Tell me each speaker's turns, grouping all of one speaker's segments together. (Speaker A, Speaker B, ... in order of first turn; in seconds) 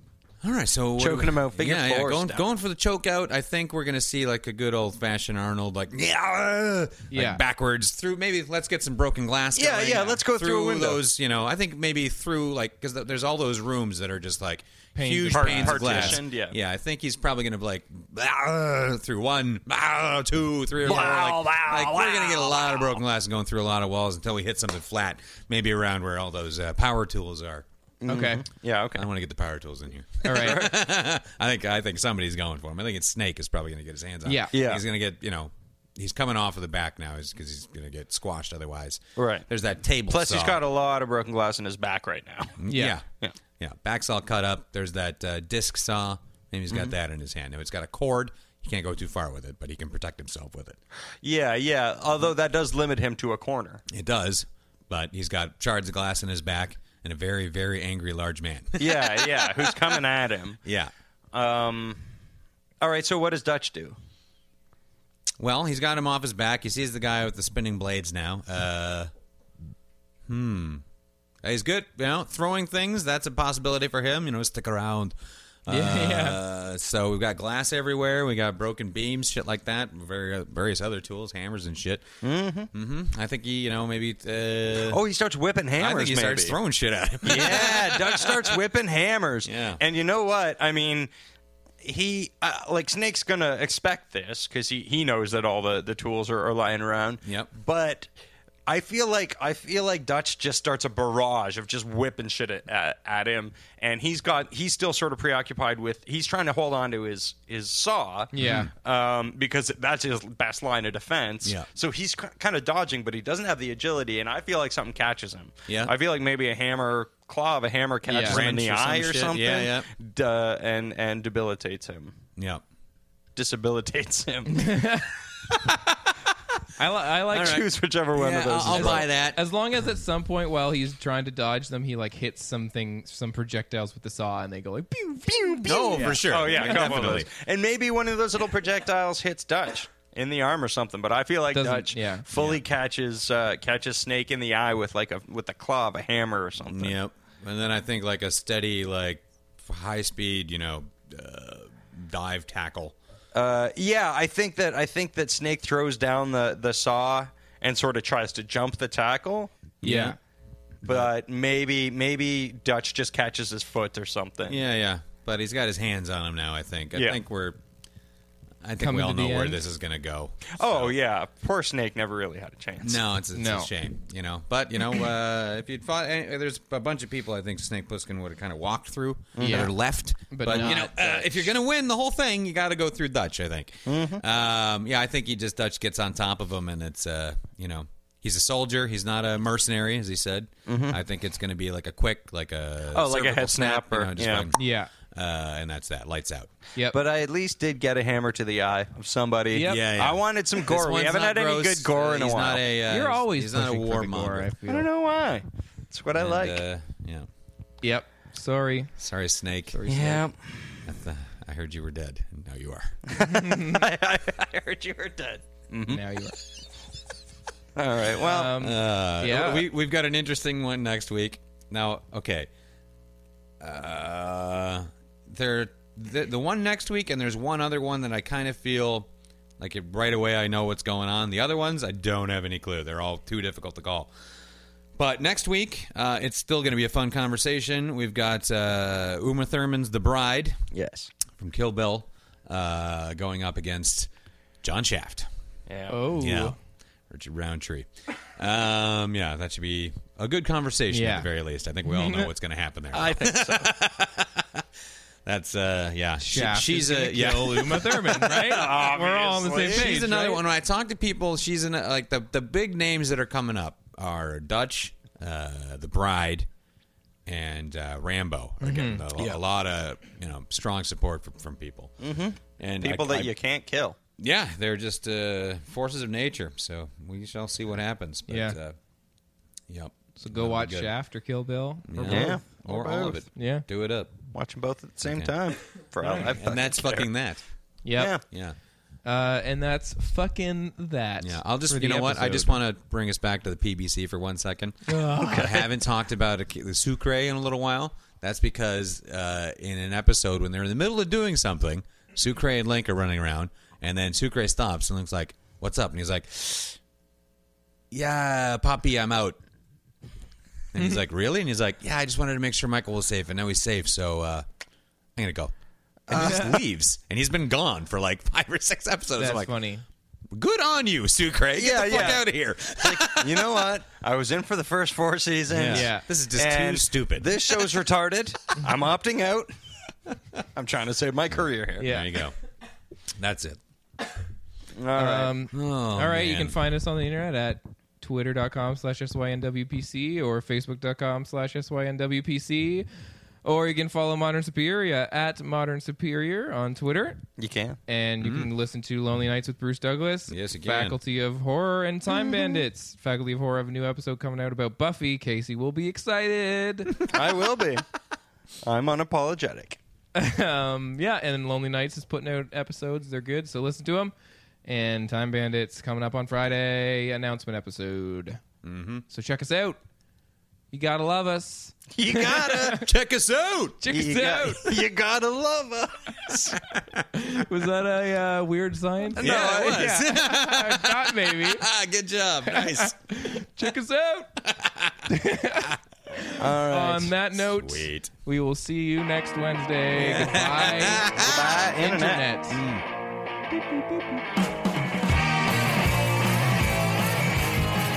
Speaker A: 0.4-27.6, 28.9-40.6, 42.6-43.0, 43.6-50.8, 53.9-60.0, 60.6-60.9, 65.4-69.1, 70.2-70.8, 71.4-82.0, 82.7-85.0, 85.8-88.6, 89.4-89.8, 97.2-97.5, 108.4-108.7, 115.7-115.9, 118.2-119.9, 122.4-122.6, 125.5-126.0, 127.3-129.4, 135.6-137.3, 142.3-142.6, 146.7-152.9, 159.8-160.2, 164.4-167.6, 168.6-170.9, 172.8-196.5, 199.6-204.5, 206.1-207.3, 209.0-209.8, 210.8-213.0, 218.5-222.5, 223.6-234.1, 234.9-240.6, 241.4-244.1, 244.6-245.3, 246.2-246.6, 247.1-254.6, 255.2-258.5, 259.6-266.5, 267.2-271.9, 272.6-273.3, 274.2-278.8, 279.7-280.9, 281.9-284.1, 285.0-285.3, 286.0-287.4, 288.3-288.6, 291.2-306.8, 307.9-309.4, 310.7-314.4, 315.1-315.5, 316.1-319.5, 320.3-323.6, 325.5-327.8, 331.8-332.3, 333.2-333.6, 335.5-336.6, 348.2-348.5, 350.3-351.0, 368.6-369.0, 372.6-373.8, 379.1-382.9, 384.4-385.8, 387.4-388.1, 389.9-391.6, 392.5-392.8
Speaker B: 1.0-2.4, 9.6-11.0, 15.3-16.6, 20.8-23.0, 28.0-29.1, 30.3-30.8, 34.5-34.8, 39.2-39.5, 40.1-42.6, 51.2-53.8, 58.8-60.6, 61.3-62.0, 62.8-64.0, 82.2-82.7, 84.9-86.5, 87.2-91.1, 91.8-98.1, 98.7-122.1, 123.3-124.7, 127.3-129.1, 135.3-146.9, 153.3-159.8, 160.8-164.6, 166.9-167.2, 170.5-173.0, 179.3-179.7, 180.5-181.2, 183.8-184.2, 190.7-191.0, 192.9-194.5, 196.9-202.7, 204.7-206.6, 209.9-210.9, 213.1-216.0, 217.8-218.5, 240.7-241.1, 245.7-246.0, 252.9-253.8, 258.2-260.0, 272.0-274.0, 282.1-283.3, 284.3-287.1, 287.9-288.2, 295.1-295.6, 316.1-316.6, 321.6-329.5, 330.5-331.9, 334.8-335.4, 347.4-347.8, 357.0-357.8, 358.6-359.8, 371.9-372.9, 373.9-376.6, 379.2-380.1, 386.4-387.1, 391.2-392.3
Speaker C: 7.1-7.4, 14.9-16.2, 28.1-28.4, 30.2-30.6, 34.2-34.5, 42.7-43.0, 75.7-76.4, 108.3-108.7, 118.1-118.4, 124.5-125.1, 126.8-127.6, 128.7-136.9, 141.5-142.2, 159.8-160.2, 168.8-169.6, 173.3-173.7, 179.4-179.7, 180.3-180.9, 194.5-194.9, 199.5-199.8, 202.9-204.9, 207.8-208.9, 209.7-210.2, 213.2-213.8, 215.9-216.3, 218.2-219.7, 245.9-246.6, 250.9-251.3, 251.8-252.3, 256.2-260.4, 268.6-269.0, 278.3-278.6, 280.2-282.4, 283.3-283.6, 287.8-288.2, 289.0-292.6, 294.9-295.4, 316.2-316.5, 319.2-319.8, 325.7-326.0, 331.8-332.1, 334.9-342.9, 343.4-347.2, 347.9-356.9, 360.1-364.1, 364.6-368.4, 369.1-369.8, 370.7-372.9, 373.8-374.7, 377.1-381.6, 382.5-384.3, 385.1-391.1, 391.8-392.6